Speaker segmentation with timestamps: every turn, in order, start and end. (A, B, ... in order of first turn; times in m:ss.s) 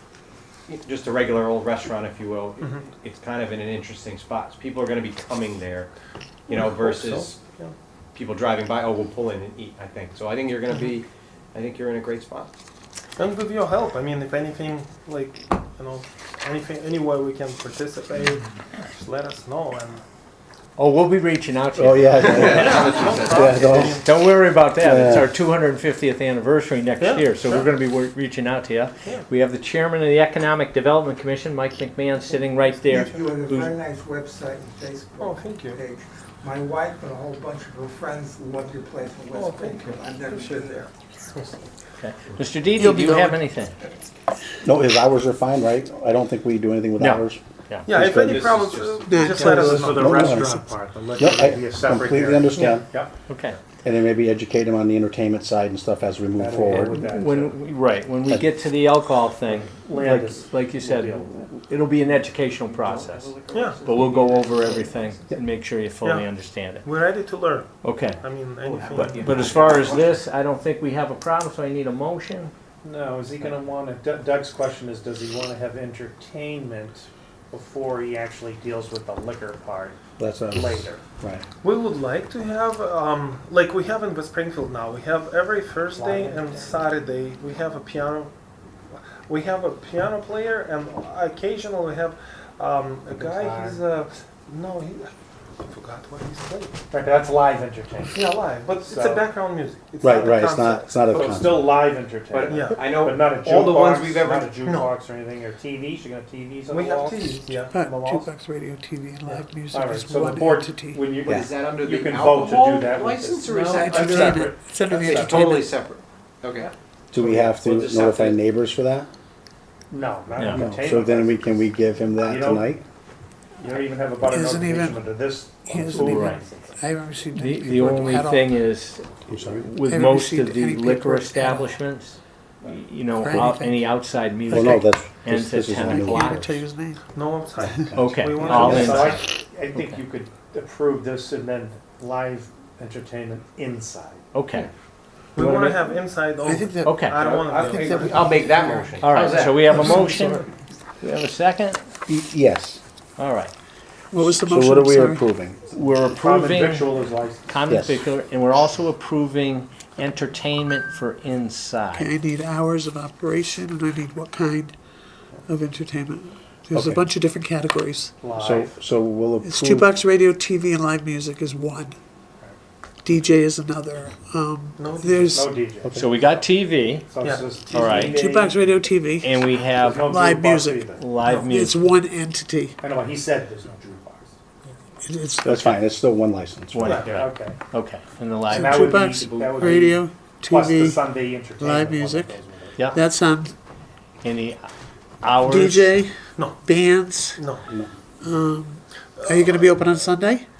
0:00.7-0:05.9 A
0:06.5-0:07.7 B
0:06.5-0:07.4 A
0:08.2-0:12.5 A
0:13.2-0:20.0 B
0:20.8-0:22.8 C
0:21.8-0:24.0 D
0:22.2-0:24.0 A
0:22.4-0:24.2 B
0:24.0-0:33.8 C
0:24.8-0:25.4 D
0:27.0-0:27.7 B
0:32.9-0:40.9 E
0:35.2-0:35.8 B
0:39.4-0:40.8 B
0:42.0-0:43.8 C
0:42.8-0:43.4 F
0:44.6-0:48.7 D
0:47.0-0:47.9 C
0:47.8-0:50.6 B
0:48.2-0:49.4 A
0:49.0-0:50.7 F
0:49.5-0:53.1 G
0:49.8-0:50.6 D
0:51.2-0:52.9 D
0:53.3-0:53.6 C
0:53.8-0:57.0 D
0:56.4-0:57.6 G
0:56.8-1:06.9 C
0:59.4-1:01.4 G
1:02.6-1:05.3 A
1:03.5-1:03.8 B
1:06.0-1:06.3 B
1:06.8-1:10.0 B
1:07.8-1:08.2 C
1:08.1-1:10.2 A
1:08.9-1:12.5 C
1:12.8-1:20.0 G
1:20.2-1:21.4 D
1:20.5-1:21.0 G
1:21.6-1:28.3 B
1:25.9-1:26.8 G
1:28.9-1:36.8 B
1:33.1-1:33.8 G
1:36.9-1:39.3 G
1:38.1-1:41.2 B
1:40.0-1:41.8 D
1:41.0-1:48.3 G
1:42.3-1:44.7 A
1:42.5-1:44.9 B
1:46.7-1:48.3 B
1:47.7-1:51.1 F
1:49.2-1:55.5 G
1:51.2-1:56.7 A
1:53.6-1:55.8 F
1:57.1-1:59.1 D
1:57.1-1:57.6 G
1:57.4-1:58.4 A
1:59.9-2:02.8 G
2:00.4-2:00.7 C
2:00.5-2:02.8 D
2:03.6-2:06.8 G
2:04.2-2:08.6 F
2:06.0-2:06.4 C
2:07.4-2:16.7 C
2:09.3-2:09.7 D
2:09.8-2:11.8 F
2:12.6-2:12.9 G
2:13.1-2:13.9 F
2:14.5-2:16.5 D
2:15.7-2:17.0 F
2:17.1-2:19.2 B
2:18.0-2:18.3 D
2:18.0-2:19.2 C
2:18.3-2:24.2 G
2:24.3-2:24.7 C
2:25.4-2:28.3 B
2:25.4-2:25.9 C
2:26.4-2:28.9 F
2:26.8-2:27.3 C
2:27.1-2:30.4 A
2:29.0-2:30.5 C
2:29.8-2:30.2 G
2:31.0-2:31.9 C
2:32.1-2:32.8 D
2:33.2-2:33.5 C
2:34.1-2:35.3 F
2:34.2-2:35.6 D
2:35.7-2:42.1 C
2:36.0-2:37.6 G
2:37.7-2:38.0 D
2:41.9-2:44.8 F
2:45.5-2:48.1 F
2:46.7-2:47.1 D
2:48.2-2:48.8 G
2:48.4-2:49.9 D
2:49.4-2:52.0 F
2:53.0-2:55.6 F
2:54.8-2:55.5 B
2:55.3-2:56.0 G
2:55.8-2:56.1 D
2:55.9-2:57.1 C
2:57.1-2:58.8 G
2:57.2-2:58.1 B
2:57.7-2:58.2 C
2:58.0-2:59.4 F
2:59.2-3:00.1 C
2:59.6-3:01.2 G
3:00.0-3:02.8 F
3:00.9-3:01.9 C
3:01.2-3:01.5 B
3:02.8-3:04.3 G
3:05.0-3:05.8 F
3:05.4-3:07.0 D
3:06.7-3:08.9 C
3:06.8-3:07.2 B
3:06.9-3:07.6 G
3:08.5-3:13.6 F
3:08.5-3:13.0 G
3:14.2-3:14.7 C
3:15.2-3:16.0 C
3:15.4-3:17.5 F
3:16.4-3:16.7 B
3:17.4-3:17.7 B
3:17.7-3:17.9 D
3:18.2-3:20.5 F
3:19.2-3:19.8 B